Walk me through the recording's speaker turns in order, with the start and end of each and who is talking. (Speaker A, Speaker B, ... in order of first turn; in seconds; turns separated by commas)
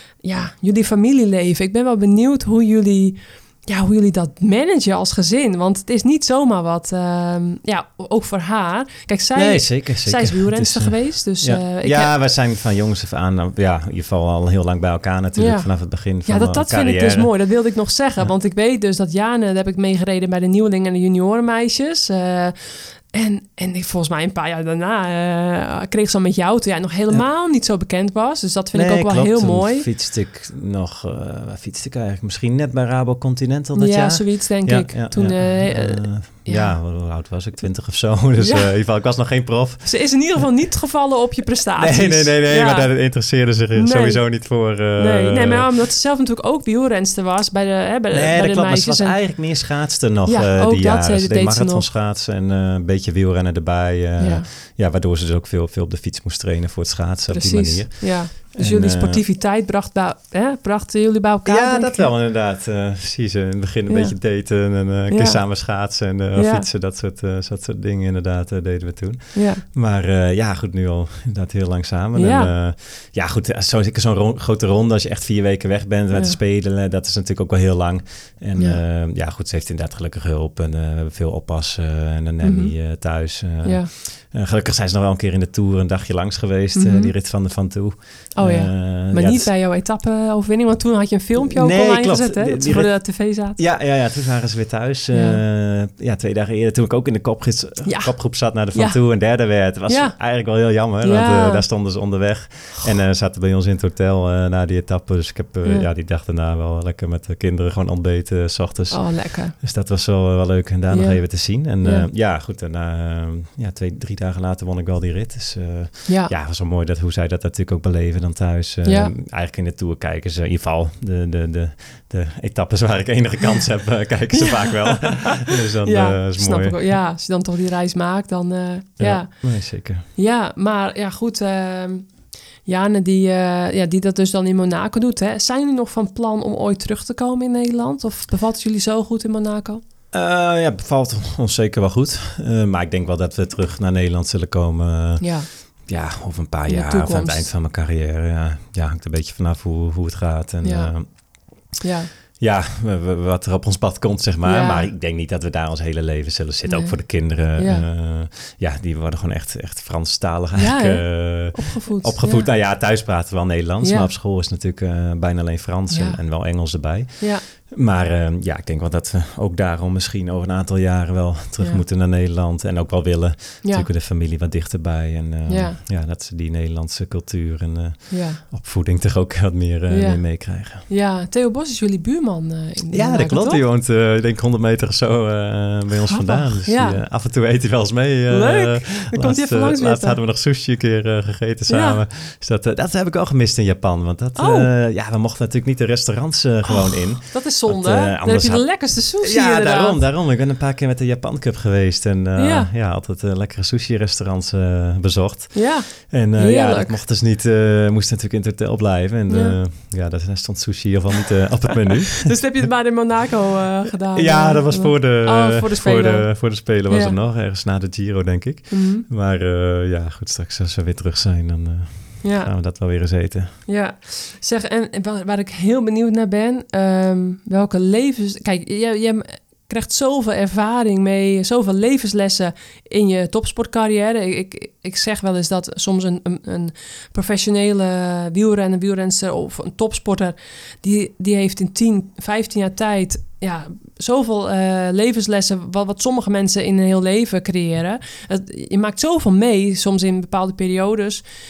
Speaker A: 0.2-12.1, Speaker B: 9.3-17.7, Speaker A: 15.4-29.9, Speaker B: 28.7-40.5, Speaker A: 33.8-36.8, Speaker A: 38.4-38.7, Speaker A: 39.8-51.9, Speaker B: 41.8-45.7, Speaker B: 48.1-59.2, Speaker A: 54.2-54.5, Speaker A: 57.3-62.1, Speaker B: 61.5-89.5, Speaker A: 63.9-66.7, Speaker A: 69.3-69.6, Speaker A: 72.1-72.5, Speaker A: 76.1-76.4, Speaker A: 78.6-78.8, Speaker A: 82.4-83.9, Speaker A: 86.8-87.2, Speaker A: 88.3-93.6, Speaker B: 91.4-126.9, Speaker A: 95.1-95.4, Speaker A: 97.8-102.0, Speaker A: 108.9-109.5, Speaker A: 110.9-112.1, Speaker A: 116.1-116.3, Speaker A: 118.8-119.1, Speaker A: 124.3-139.8, Speaker B: 129.0-130.1, Speaker B: 140.1-151.7, Speaker A: 145.2-145.9, Speaker A: 146.7-147.5, Speaker A: 150.6-152.1, Speaker B: 152.4-180.9, Speaker A: 154.4-154.9, Speaker A: 156.7-157.9, Speaker A: 160.6-162.5, Speaker A: 163.8-164.1, Speaker A: 165.9-167.4, Speaker A: 173.6-173.9, Speaker A: 175.5-175.8, Speaker A: 178.1-178.4, Speaker A: 179.9-183.6, Speaker B: 182.9-212.7, Speaker A: 186.1-187.0, Speaker A: 188.3-190.2, Speaker A: 191.7-192.0, Speaker A: 194.4-194.7, Speaker A: 196.7-200.0, Speaker A: 202.4-202.7, Speaker A: 205.5-207.0, Speaker A: 209.3-209.6, Speaker A: 212.2-217.2, Speaker B: 214.1-223.7, Speaker A: 218.7-219.1, Speaker A: 222.2-222.5, Speaker A: 223.7-251.2